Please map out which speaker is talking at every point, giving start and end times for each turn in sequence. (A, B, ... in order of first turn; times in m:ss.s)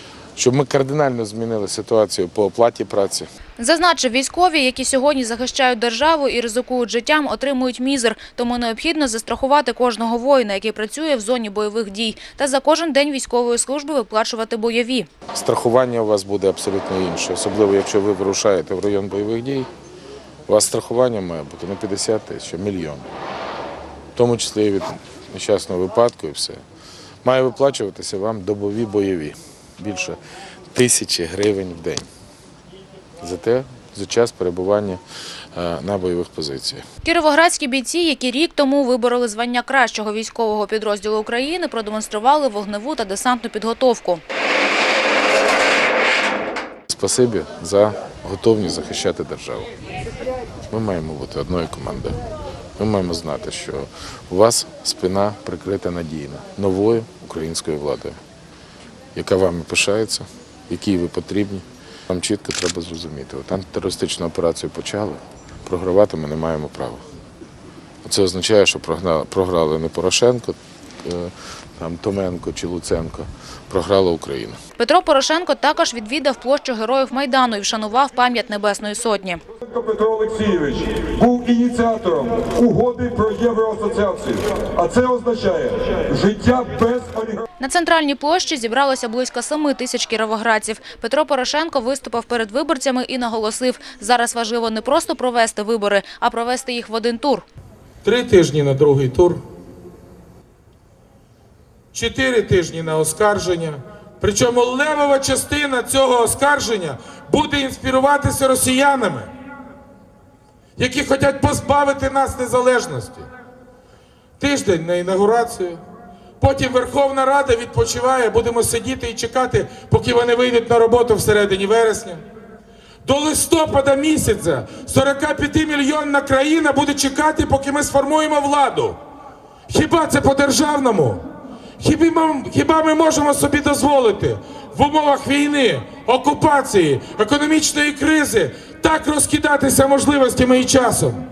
0:00.4-0:03.3 A
0:03.6-0:15.1 B
0:15.4-0:19.7 A
0:20.5-0:23.1 A
0:24.2-0:26.6 A
0:27.2-0:30.2 A
0:30.7-0:32.1 A
0:33.2-0:35.0 A
0:35.6-0:36.8 A
0:37.0-0:44.2 B
0:46.9-0:49.7 A
0:50.7-0:52.2 A
0:52.8-0:58.2 A
0:59.2-1:07.0 A
1:08.0-1:14.6 A
1:14.8-1:19.4 B
1:19.6-1:27.4 C
1:27.6-1:37.4 B
1:38.0-1:39.4 D
1:41.9-1:49.3 D
1:50.8-1:53.3 D
1:54.4-1:55.8 D
1:56.4-2:02.2 D
2:03.0-2:09.0 D
2:09.7-2:11.2 D
2:11.8-2:21.2 D